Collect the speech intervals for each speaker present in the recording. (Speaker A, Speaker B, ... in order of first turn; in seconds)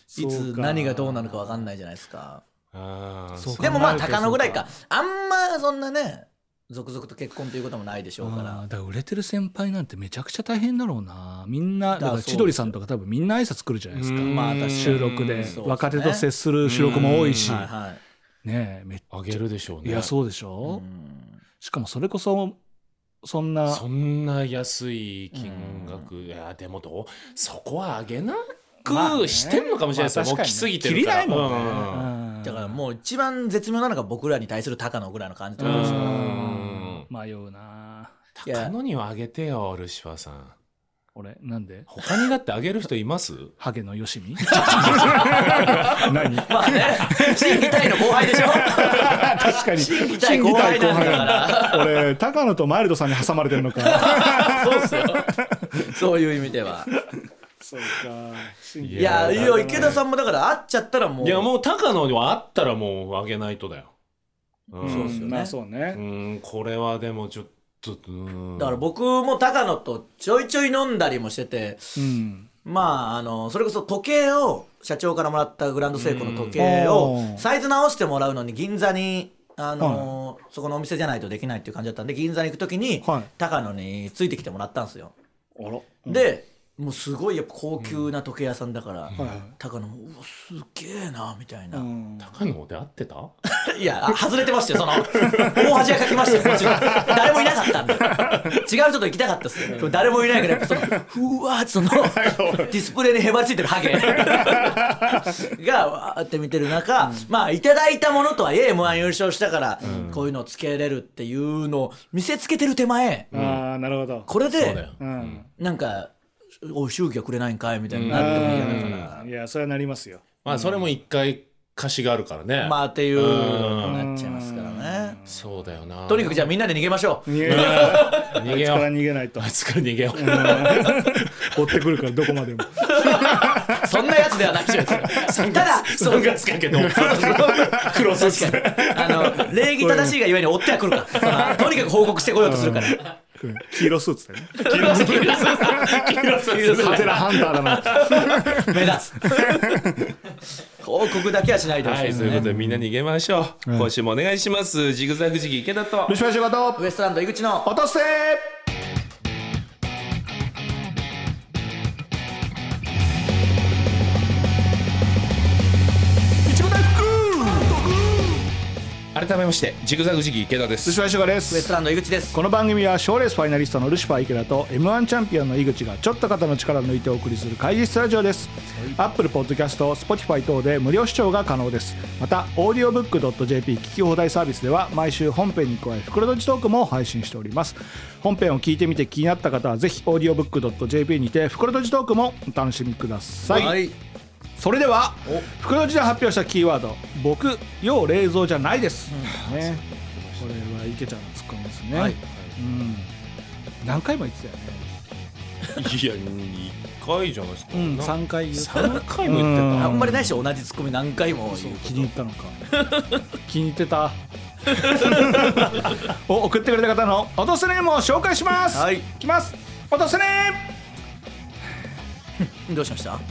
Speaker A: 0.1-2.4, 3.6-8.6, 11.9-12.7, 14.2-16.3, 17.4-18.0, 20.6-21.4, 25.3-26.1, 32.4-36.2, 38.5-38.7, 44.5-52.0, 53.8-56.9, 59.0-61.5, 64.8-65.5, 68.6-72.0, 72.6-85.1, 86.0-91.9, 93.4-113.3, 114.3-114.8, 115.6-116.1, 116.6-119.3, 122.6-125.2, 126.1-128.3, 132.8-143.1, 144.6-149.9, 150.8-152.4, 156.8-157.7, 171.5-172.4, 193.5-193.9, 199.1-199.4, 209.8-212.1, 212.7-213.2, 214.7-215.9, 218.7-219.1, 222.7-223.2
Speaker B: 0.1-1.4, 3.4-4.7, 8.2-17.7, 18.4-20.8, 21.6-22.6, 23.2-23.8, 28.8-32.8, 35.6-38.1, 41.1-41.9, 43.6-55.9, 57.6-60.0, 64.8-66.0, 72.0-72.5, 76.5-77.4, 79.8-80.1, 83.0-83.3, 85.5-86.3, 89.2-89.5, 91.7-92.3, 95.1-95.6, 96.3-97.1, 98.0-98.5, 100.5-101.0, 102.1-102.7, 104.0-105.3, 113.3-114.3, 114.9-115.5, 118.1-120.8, 123.8-125.2, 127.3-129.5, 130.1-133.9, 136.8-140.2, 141.2-141.6, 142.4-144.9, 145.6-150.0, 152.0-152.8, 156.1-156.8, 157.6-158.4, 166.4-168.4, 170.8-171.8, 172.3-193.8, 194.6-199.8, 200.4-203.1, 203.8-204.9, 207.7-210.3, 211.5-212.6, 213.5-214.2, 214.7-220.7
Speaker C: 2.7-4.1, 13.9-15.6, 16.6-17.6, 19.1-20.1, 23.7-32.1, 35.6-37.1, 38.4-40.5, 41.9-43.5, 44.5-46.1, 58.8-60.0, 61.2-63.9, 64.7-65.2, 65.9-68.8, 76.0-76.6, 92.2-93.3, 95.1-97.3, 98.2-98.6, 102.2-102.6, 109.8-110.2, 113.3-113.6, 114.5-115.4, 117.9-119.1, 120.4-124.0, 125.2-126.5, 127.4-131.5, 135.0-139.5, 141.1-141.6, 144.6-148.2, 151.8-156.2, 169.1-171.0, 199.3-200.6, 205.8-210.0